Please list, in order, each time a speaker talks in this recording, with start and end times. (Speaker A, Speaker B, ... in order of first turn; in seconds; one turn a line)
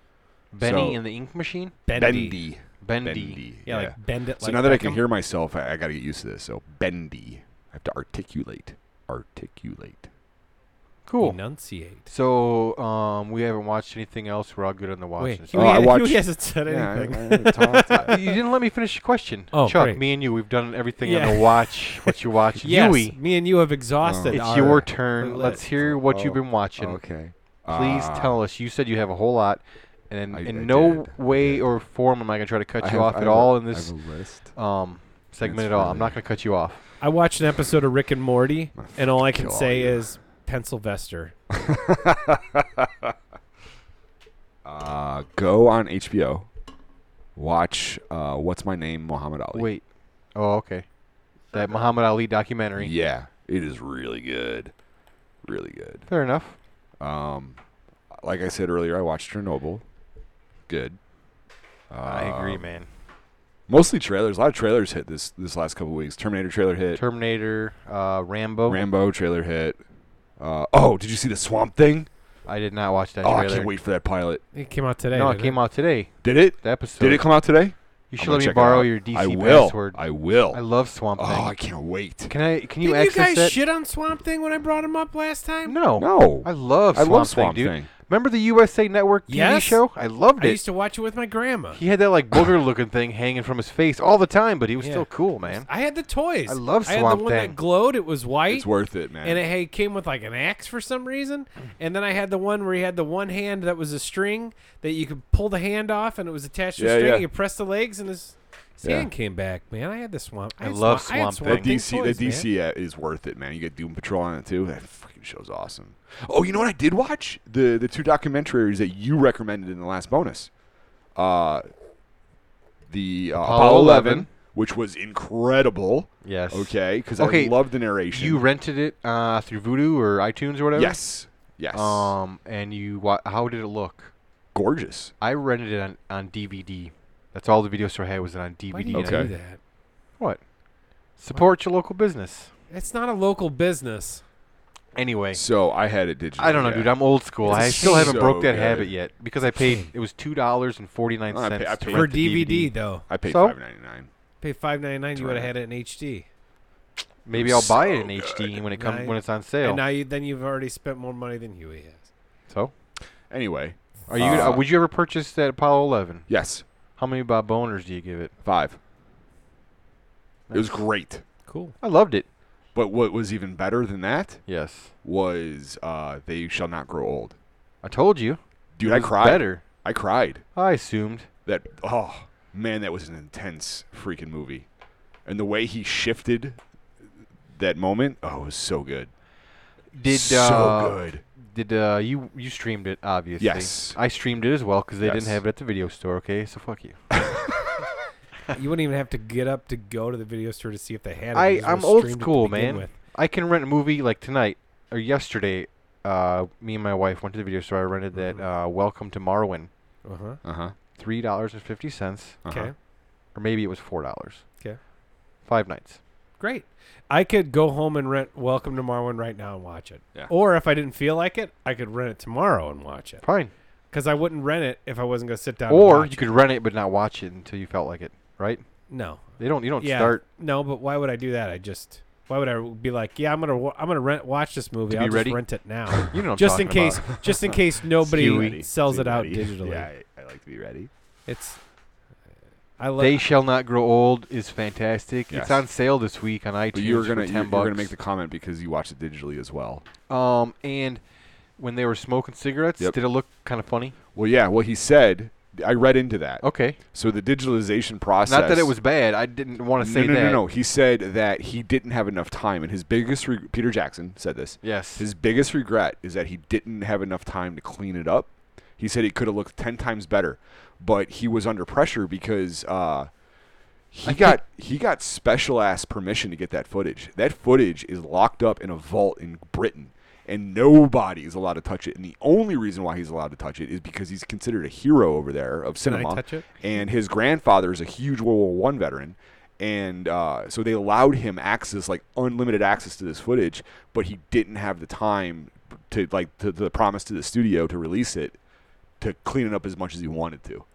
Speaker A: 0.5-1.8
Speaker B: 0.6-1.0
Speaker C: 1.9-2.4
Speaker B: 1.9-10.1
Speaker A: 2.8-3.4
Speaker C: 3.6-5.0
Speaker A: 11.1-11.4
Speaker C: 11.2-12.0
Speaker A: 12.1-15.9
Speaker C: 15.2-18.3
Speaker B: 15.5-18.2
Speaker A: 17.7-23.2
Speaker C: 19.5-20.0
Speaker C: 21.0-25.6
Speaker B: 24.0-24.8
Speaker A: 24.3-27.0
Speaker B: 25.8-28.3
Speaker A: 27.7-34.0
Speaker B: 30.3-31.6
Speaker B: 32.8-34.5
Speaker A: 34.5-36.8
Speaker B: 35.4-36.2
Speaker C: 37.0-41.3
Speaker B: 38.8-40.0
Speaker B: 41.5-43.1
Speaker B: 44.6-46.5
Speaker B: 47.4-49.7
Speaker A: 49.5-49.8
Speaker A: 50.3-50.8
Speaker A: 51.5-52.9
Speaker B: 52.8-54.7
Speaker B: 55.4-56.0
Speaker A: 56.1-56.6
Speaker B: 57.0-57.6
Speaker B: 58.1-59.8
Speaker B: 60.7-61.0
Speaker B: 61.9-62.7
Speaker A: 62.0-62.9
Speaker B: 63.7-67.0
Speaker A: 66.9-68.8
Speaker B: 68.7-69.8
Speaker B: 70.4-72.1
Speaker A: 72.5-73.7
Speaker B: 73.2-74.4
Speaker C: 74.5-75.6
Speaker A: 75.1-77.3
Speaker B: 76.2-80.6
Speaker A: 78.1-81.6
Speaker B: 81.2-82.3
Speaker A: 82.3-83.6
Speaker C: 82.8-85.8
Speaker A: 85.7-90.6
Speaker B: 86.0-87.9
Speaker C: 89.3-89.8
Speaker C: 90.4-91.8
Speaker A: 91.7-95.7
Speaker C: 94.8-98.7
Speaker A: 96.5-97.6
Speaker B: 98.5-99.4
Speaker C: 99.2-112.5
Speaker B: 106.8-107.2
Speaker B: 108.8-109.1
Speaker A: 110.6-111.8
Speaker B: 111.4-120.5
Speaker B: 121.2-121.7
Speaker B: 122.9-128.4
Speaker A: 123.4-124.3
Speaker A: 126.2-131.0
Speaker B: 130.7-132.1
Speaker A: 131.7-134.1
Speaker B: 134.5-135.1
Speaker A: 135.2-139.3
Speaker C: 138.7-139.6
Speaker B: 138.9-139.3
Speaker A: 141.2-142.5
Speaker C: 142.7-144.2
Speaker A: 144.9-145.5
Speaker B: 145.3-148.9
Speaker A: 146.4-152.7
Speaker C: 147.5-148.2
Speaker B: 151.3-152.2
Speaker C: 151.9-153.0
Speaker B: 153.1-154.1
Speaker A: 153.2-153.6
Speaker C: 154.4-156.2
Speaker B: 155.2-155.5
Speaker A: 157.2-159.8
Speaker B: 157.3-158.6
Speaker C: 158.8-162.1
Speaker B: 163.3-164.7
Speaker A: 164.1-166.4
Speaker B: 166.3-166.6
Speaker A: 167.0-168.3
Speaker B: 168.4-168.8
Speaker A: 170.5-170.8
Speaker B: 170.5-171.2
Speaker C: 171.5-171.7
Speaker A: 171.8-172.2
Speaker B: 172.7-174.4
Speaker A: 174.5-174.9
Speaker B: 175.0-177.3
Speaker A: 177.8-179.6
Speaker B: 178.8-180.4
Speaker A: 180.5-181.3
Speaker B: 181.4-184.7
Speaker B: 185.2-186.6
Speaker B: 187.5-189.1
Speaker A: 189.9-197.0
Speaker B: 190.1-191.2
Speaker B: 193.4-194.0
Speaker B: 195.0-195.4
Speaker B: 197.1-197.6
Speaker C: 198.5-202.9
Speaker A: 201.3-209.7
Speaker C: 208.1-208.4
Speaker C: 210.0-210.4
Speaker B: 210.4-210.7
Speaker A: 210.9-212.4
Speaker B: 212.4-212.7
Speaker C: 212.5-212.7
Speaker A: 213.3-214.4
Speaker A: 215.4-216.0
Speaker C: 216.4-223.2
Speaker A: 223.2-223.5
Speaker C: 223.9-226.2
Speaker A: 225.7-228.6
Speaker C: 228.9-239.9
Speaker A: 229.4-230.2
Speaker A: 234.9-237.3
Speaker A: 238.0-238.6
Speaker B: 238.1-240.9
Speaker C: 241.3-241.6
Speaker C: 242.8-243.2
Speaker A: 243.0-247.9
Speaker B: 245.3-245.6
Speaker B: 246.7-249.8
Speaker A: 250.1-251.0
Speaker A: 251.6-253.9
Speaker B: 254.1-258.7
Speaker A: 256.4-256.8
Speaker A: 258.2-260.4
Speaker B: 259.8-273.1
Speaker A: 264.6-265.1
Speaker B: 273.9-298.4
Speaker A: 274.0-274.4
Speaker C: 285.8-286.5
Speaker B: 299.0-300.6